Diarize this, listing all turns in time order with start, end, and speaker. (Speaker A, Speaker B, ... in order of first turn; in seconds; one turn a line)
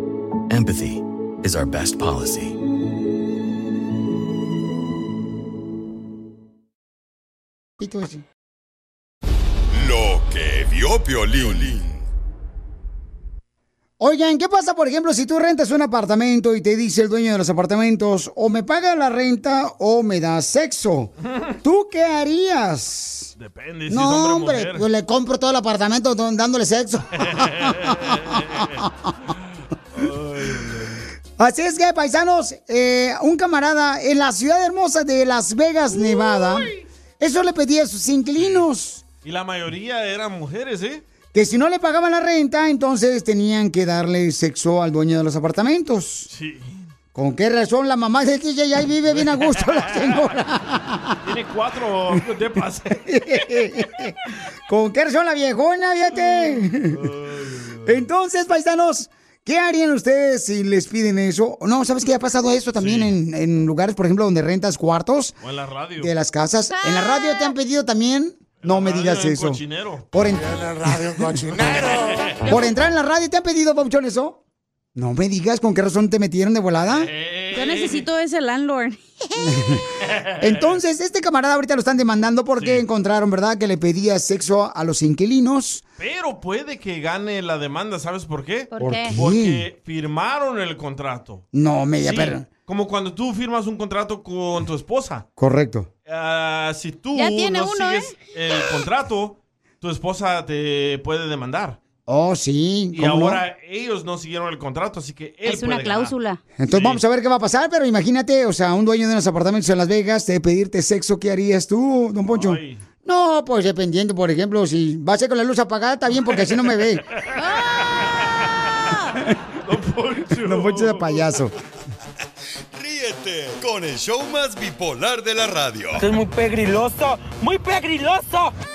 Speaker A: 0.5-2.6
Speaker B: 7.8-8.2
Speaker C: 9.7-12.0
Speaker B: 14.0-21.1
Speaker B: 21.6-23.3
Speaker D: 23.4-24.9
Speaker B: 23.9-29.1
Speaker D: 27.2-28.6
Speaker D: 29.9-31.1
Speaker B: 31.4-39.0
Speaker D: 38.4-38.6
Speaker D: 39.2-41.0
Speaker B: 41.3-46.3
Speaker D: 46.3-46.8
Speaker B: 47.1-51.2
Speaker D: 49.1-50.2
Speaker D: 51.2-53.1
Speaker B: 53.1-54.1
Speaker B: 54.7-57.1
Speaker D: 56.9-58.0
Speaker B: 57.9-65.4
Speaker D: 62.8-63.2
Speaker D: 65.4-66.1
Speaker B: 66.0-69.6
Speaker E: 66.7-67.5
Speaker D: 68.6-70.1
Speaker B: 70.1-71.8
Speaker D: 71.7-72.3
Speaker B: 72.4-74.4
Speaker B: 75.0-77.1
Speaker D: 76.9-78.0
Speaker E: 77.5-79.4
Speaker B: 79.4-79.9
Speaker D: 80.4-80.8
Speaker B: 80.4-85.8
Speaker D: 82.6-82.8
Speaker D: 86.0-91.5
Speaker E: 88.7-89.1
Speaker B: 88.8-89.6
Speaker B: 91.5-92.5
Speaker D: 92.0-95.2
Speaker B: 95.4-95.9
Speaker D: 96.1-101.8
Speaker E: 97.2-98.2
Speaker B: 102.1-103.4
Speaker D: 102.9-106.2
Speaker E: 105.5-106.4
Speaker B: 106.6-117.0
Speaker D: 106.7-107.0
Speaker D: 112.3-112.8
Speaker E: 117.4-117.9
Speaker E: 118.9-119.2
Speaker D: 119.6-121.5
Speaker B: 120.4-121.5
Speaker C: 122.7-126.0
Speaker F: 126.0-128.5